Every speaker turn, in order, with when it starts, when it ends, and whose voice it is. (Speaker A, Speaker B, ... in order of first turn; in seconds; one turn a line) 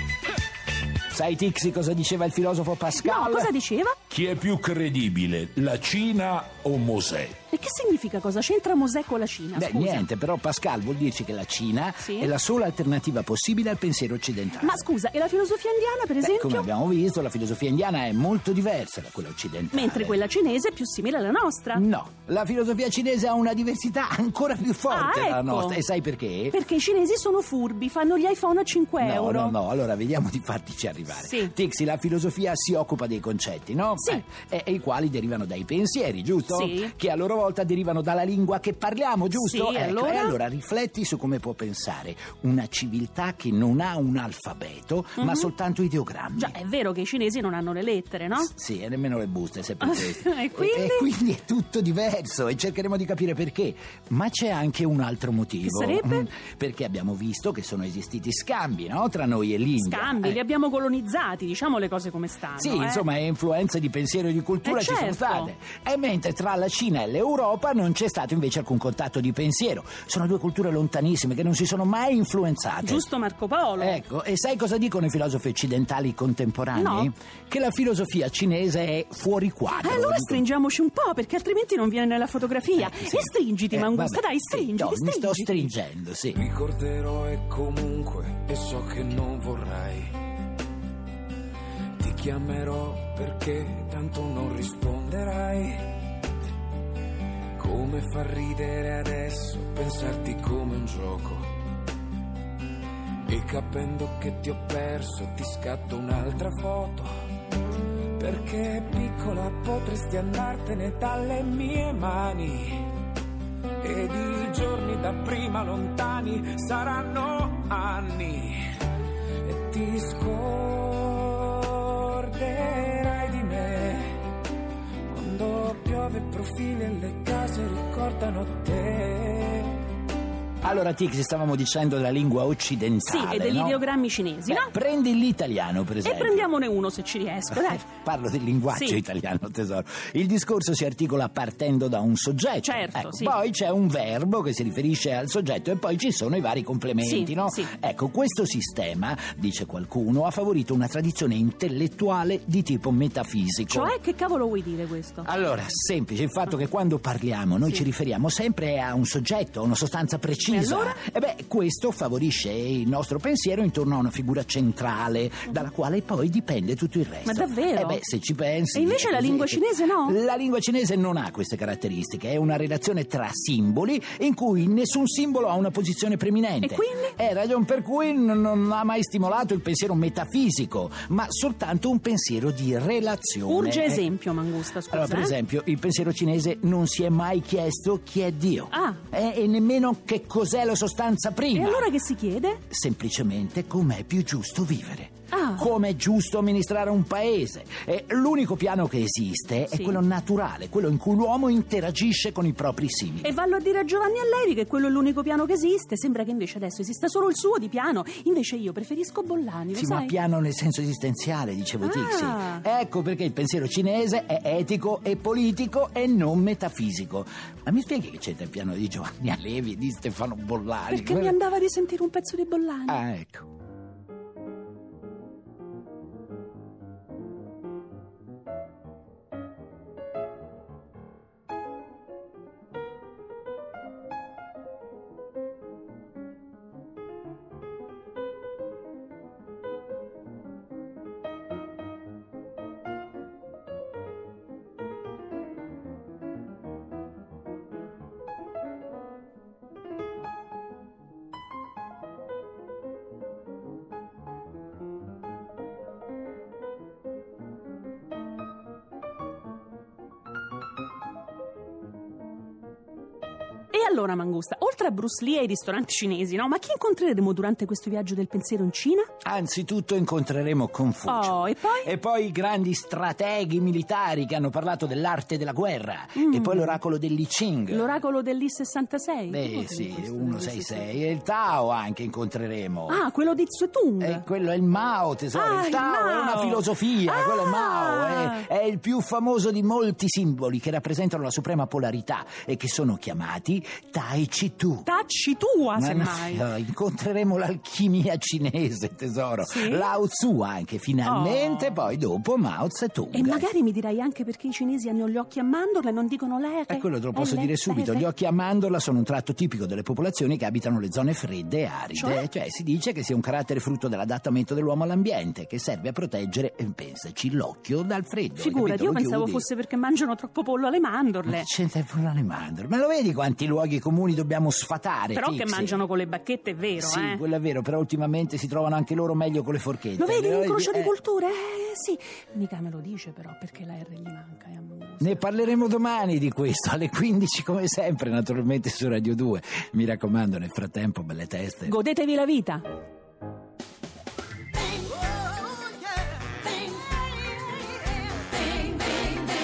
Speaker A: 1.1-3.5
Speaker B: 2.9-4.0
Speaker C: 4.2-7.3
Speaker B: 7.5-10.1
Speaker A: 9.5-14.9
Speaker B: 12.0-12.3
Speaker B: 14.6-16.7
Speaker A: 16.2-20.2
Speaker B: 19.7-21.8
Speaker A: 21.7-26.6
Speaker B: 24.9-25.8
Speaker B: 26.5-29.6
Speaker A: 29.0-46.6
Speaker B: 31.2-31.5
Speaker B: 34.0-34.2
Speaker B: 36.5-36.9
Speaker B: 39.3-40.3
Speaker B: 45.2-45.5
Speaker B: 46.4-48.5
Speaker A: 48.4-60.4
Speaker B: 49.8-51.1
Speaker B: 55.6-56.3
Speaker B: 59.8-63.0
Speaker A: 62.6-73.0
Speaker B: 64.6-65.5
Speaker B: 72.8-74.0
Speaker A: 73.8-80.4
Speaker B: 76.7-77.1
Speaker B: 79.8-85.7
Speaker A: 82.7-86.4
Speaker D: 86.3-90.2
Speaker D: 92.0-96.0
Speaker D: 97.5-101.6
Speaker D: 103.3-107.1
Speaker D: 108.2-113.0
Speaker D: 113.8-118.8
Speaker D: 119.4-124.2
Speaker D: 125.1-129.8
Speaker A: 130.6-133.8
Speaker B: 133.0-134.7
Speaker A: 134.5-136.5
Speaker B: 136.0-137.8
Speaker A: 137.5-153.9
Speaker B: 138.7-139.0
Speaker B: 142.6-143.3
Speaker B: 147.0-147.7
Speaker B: 153.7-155.3
Speaker A: 155.2-184.1
Speaker B: 160.5-161.0
Speaker B: 167.2-168.0
Speaker B: 168.7-170.2
Speaker B: 176.6-177.1
Speaker B: 183.5-185.3
Speaker A: 184.9-191.9
Speaker B: 188.7-189.0
Speaker B: 191.5-192.6
Speaker A: 192.7-203.3
Speaker B: 195.3-195.7
Speaker B: 199.7-200.0
Speaker B: 203.2-210.1
Speaker A: 209.7-221.4
Speaker B: 211.8-212.6
Speaker B: 220.9-223.0
Speaker A: 222.9-223.5
Speaker B: 263.7-269.1
Speaker A: 269.2-277.9
Speaker B: 271.1-271.9
Speaker B: 276.1-276.8
Speaker B: 277.7-280.9
Speaker A: 279.3-283.0
Speaker B: 282.9-284.2
Speaker A: 284.0-294.9
Speaker B: 285.3-288.4
Speaker B: 294.9-296.4
Speaker A: 295.7-303.5
Speaker B: 299.4-299.9
Speaker B: 301.0-301.9
Speaker B: 303.1-308.1
Speaker A: 306.7-319.5
Speaker B: 311.9-312.2
Speaker B: 318.4-321.5
Speaker A: 321.2-325.9
Speaker B: 325.1-327.2
Speaker A: 326.8-330.9
Speaker B: 330.0-335.2
Speaker A: 335.0-341.8
Speaker B: 341.6-342.6